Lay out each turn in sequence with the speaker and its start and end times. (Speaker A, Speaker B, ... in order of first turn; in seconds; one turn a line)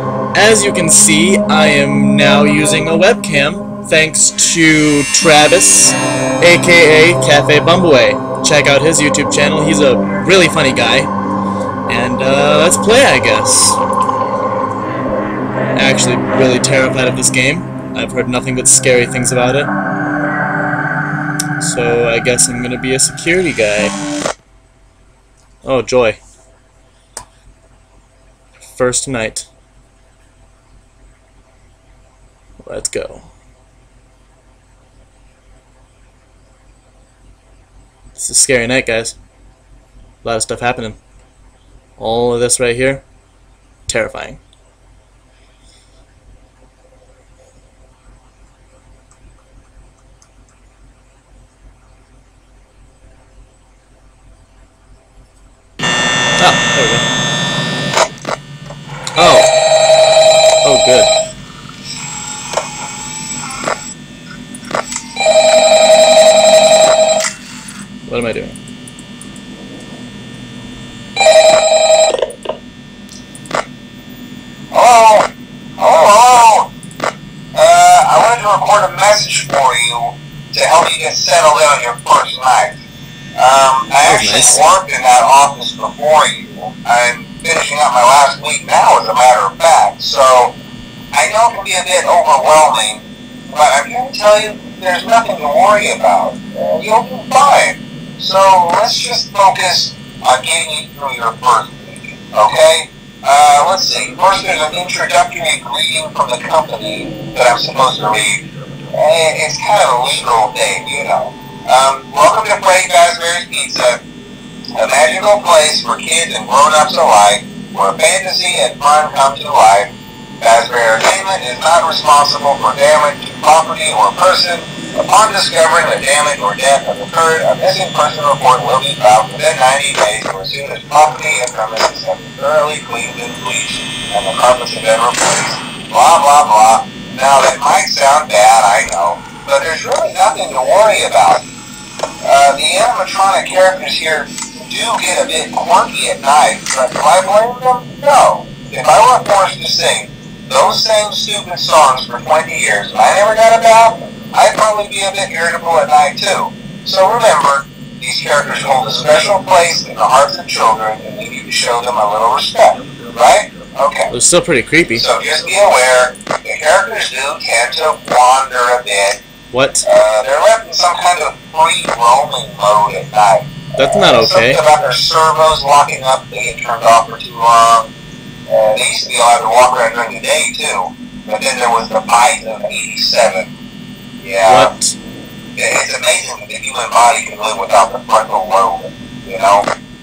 Speaker A: 0.3-11.1
Speaker A: 11.9-13.8
Speaker A: 15.7-19.7
Speaker A: 21.6-23.9
Speaker A: 25.6-26.2
Speaker A: 28.6-29.5
Speaker A: 32.6-33.3
Speaker A: 38.1-39.1
Speaker A: 40.2-41.0
Speaker A: 42.0-43.0
Speaker A: 43.9-44.4
Speaker A: 56.4-57.0
Speaker A: 59.1-59.5
Speaker A: 60.6-61.1
Speaker A: 68.1-68.5
Speaker B: 74.7-75.3
Speaker B: 75.8-76.7
Speaker B: 77.5-82.8
Speaker B: 83.4-90.5
Speaker A: 84.0-84.6
Speaker B: 91.1-114.0
Speaker B: 114.8-141.4
Speaker B: 142.2-164.1
Speaker A: 164.1-165.1
Speaker B: 164.9-169.2
Speaker A: 169.5-169.8
Speaker B: 169.8-177.9
Speaker A: 173.8-174.6
Speaker B: 178.5-183.5
Speaker B: 184.2-184.7
Speaker A: 184.4-185.0
Speaker B: 185.6-189.7